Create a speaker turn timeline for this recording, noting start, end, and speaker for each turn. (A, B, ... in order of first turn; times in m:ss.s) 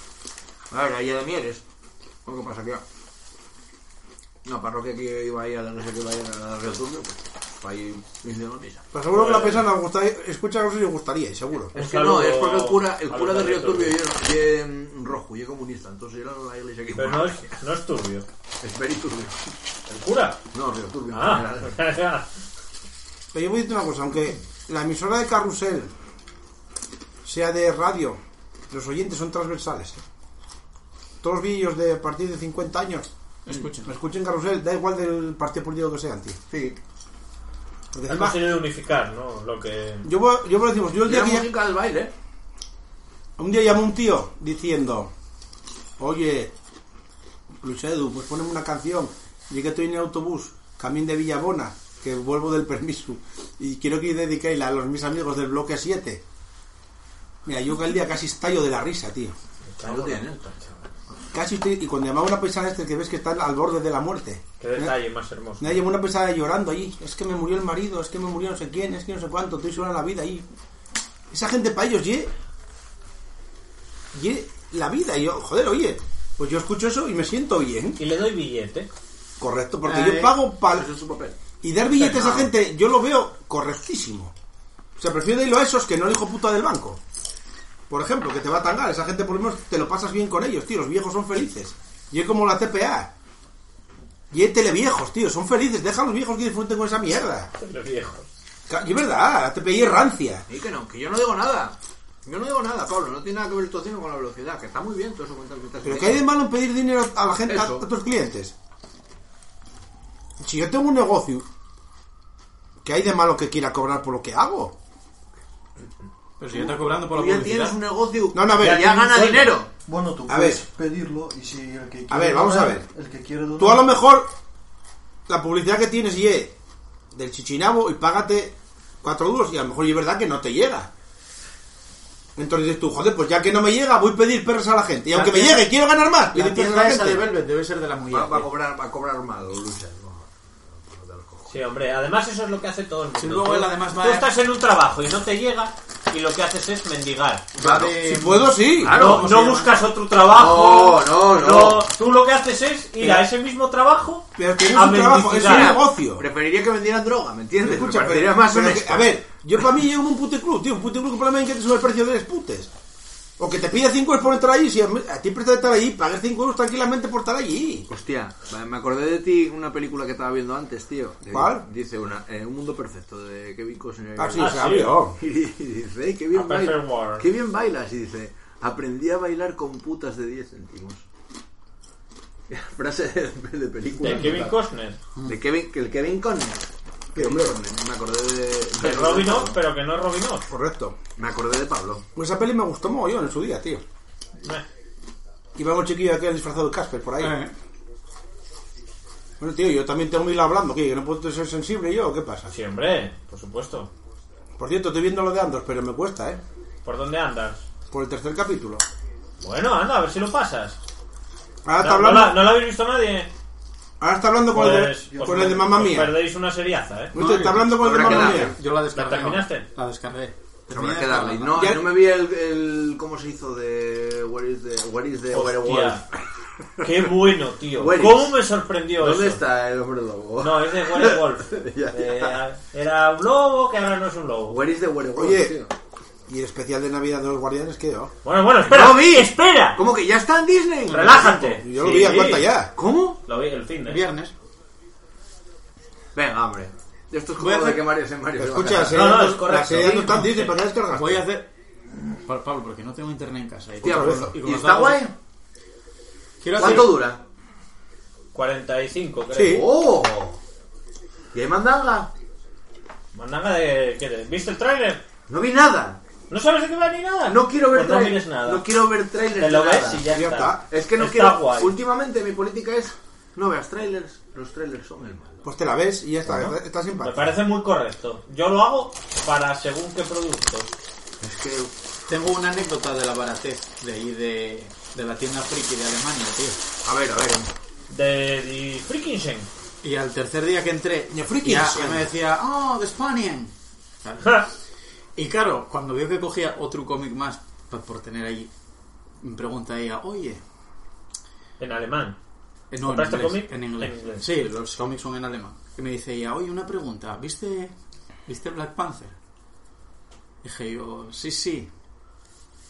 0:00.7-0:01.6 A
0:02.2-0:02.8 A
0:04.4-0:08.8 A
0:08.9-0:11.7 B
0:09.1-0:09.6 C
0:11.7-0:17.6 A
0:11.7-0:14.0 C
0:17.0-0:18.2 C
0:18.6-0:19.4 A
0:19.9-0:20.4 C
0:20.5-0:21.8 A
0:21.1-0:22.3 C
0:23.3-0:25.9 B
0:27.2-0:28.2 B
0:28.7-0:30.0 B
0:31.2-0:36.4 B
0:33.4-0:33.9 D
0:36.5-0:36.8 A
0:37.9-0:38.5 B
0:38.1-0:40.1 C
0:40.0-0:41.5 B
0:41.0-0:42.1 A
0:43.4-0:45.1 B
0:46.0-0:46.5 B
0:47.6-0:56.2 B
0:57.4-0:59.3 B
0:59.7-1:00.6 C
0:59.8-1:00.7 A
1:01.3-1:04.9 B
1:04.6-1:05.8 C
1:05.6-1:10.5 B
1:11.3-1:12.3 B
1:14.1-1:18.0 B
1:18.0-1:18.9 C
1:19.4-1:20.9 B
1:19.8-1:20.4 D
1:20.7-1:21.4 A
1:21.6-1:24.3 B
1:21.9-1:22.4 C
1:25.0-1:27.0 B
1:27.9-1:33.1 B
1:34.3-1:37.5 B
1:37.6-1:38.3 C
1:38.7-1:40.4 B
1:40.5-1:46.3 A
1:45.8-1:48.5 B
1:47.5-1:47.8 A
1:50.4-1:51.4 B
1:52.8-1:54.7 B
1:56.4-1:57.8 D
1:56.5-1:59.7 A
1:58.3-1:59.5 B
1:59.8-2:03.9 E
2:00.3-2:00.6 B
2:02.1-2:02.9 B
2:03.6-2:04.3 B
2:05.3-2:06.5 B
2:07.1-2:10.9 B
2:12.4-2:17.3 B
2:15.1-2:15.7 D
2:16.3-2:18.5 D
2:18.1-2:21.5 A
2:21.5-2:27.4 C
2:23.2-2:24.3 D
2:27.6-2:28.0 A
2:27.6-2:29.7 D
2:28.0-2:29.2 B
2:28.8-2:29.6 A
2:28.9-2:35.8 C
2:30.2-2:31.9 A
2:34.4-2:36.2 B
2:35.3-2:39.1 A
2:37.6-2:42.7 B
2:43.4-2:47.9 B
2:47.9-3:01.0 A
2:51.3-2:51.6 B
2:54.2-2:55.2 B
2:54.4-2:55.0 C
2:56.3-2:57.2 C
3:02.5-3:04.6 A
3:04.0-3:05.0 C
3:05.2-3:09.6 A
3:07.1-3:07.6 B
3:08.8-3:10.5 C
3:10.5-3:11.0 B
3:11.2-3:12.0 A
3:12.2-3:13.8 B
3:15.6-3:17.4 B
3:17.2-3:17.5 D
3:19.4-3:22.5 B
3:22.5-3:23.9 C
3:24.6-3:26.4 B
3:26.8-3:27.6 C
3:27.9-3:28.8 B
3:29.4-3:30.8 C
3:31.6-3:32.5 B
3:31.8-3:33.3 C
3:34.0-3:36.2 B
3:34.5-3:37.1 C
3:37.1-3:38.6 B
3:37.1-3:41.6 D
3:37.8-3:38.5 A
3:38.9-3:39.6 C
3:40.7-3:46.0 A
3:41.5-3:41.9 B
3:45.3-3:46.0 C
3:46.8-3:49.4 C
3:47.8-3:48.4 A
3:49.0-3:52.4 A
3:50.4-3:54.6 C
3:54.5-3:55.7 A
3:55.2-3:55.5 B
3:56.3-3:58.1 B
3:58.2-3:59.8 C
3:58.6-4:01.6 A
4:00.9-4:02.5 C
4:01.6-4:02.7 B
4:02.7-4:03.2 A
4:03.2-4:04.0 C
4:03.8-4:04.3 D
4:06.1-4:09.1 A
4:07.4-4:07.8 D
4:08.4-4:11.3 B
4:08.9-4:10.6 C
4:10.9-4:11.5 D
4:12.2-4:15.0 D
4:13.8-4:14.3 B
4:13.8-4:15.1 A
4:16.4-4:17.0 D
4:16.5-4:17.2 A
4:18.3-4:19.6 C
4:19.3-4:19.6 B
4:19.4-4:20.4 A
4:21.3-4:22.1 A
4:23.1-4:25.0 C
4:25.3-4:26.0 A
4:26.3-4:28.6 C
4:27.3-4:30.0 A
4:29.4-4:31.7 C
4:30.1-4:30.6 B
4:30.7-4:35.4 A
4:35.4-4:37.4 B
4:37.0-4:40.7 C
4:41.2-4:41.7 A
4:42.1-4:46.6 D
4:46.8-4:47.5 A
4:47.9-4:49.5 C
4:49.8-4:53.5 D
4:51.1-4:52.1 B
4:54.0-4:54.4 D
4:55.2-4:58.5 D
4:59.2-5:00.4 D
5:01.6-5:02.2 C
5:02.7-5:07.7 D
5:02.8-5:04.2 C
5:08.2-5:09.1 D
5:10.4-5:11.7 D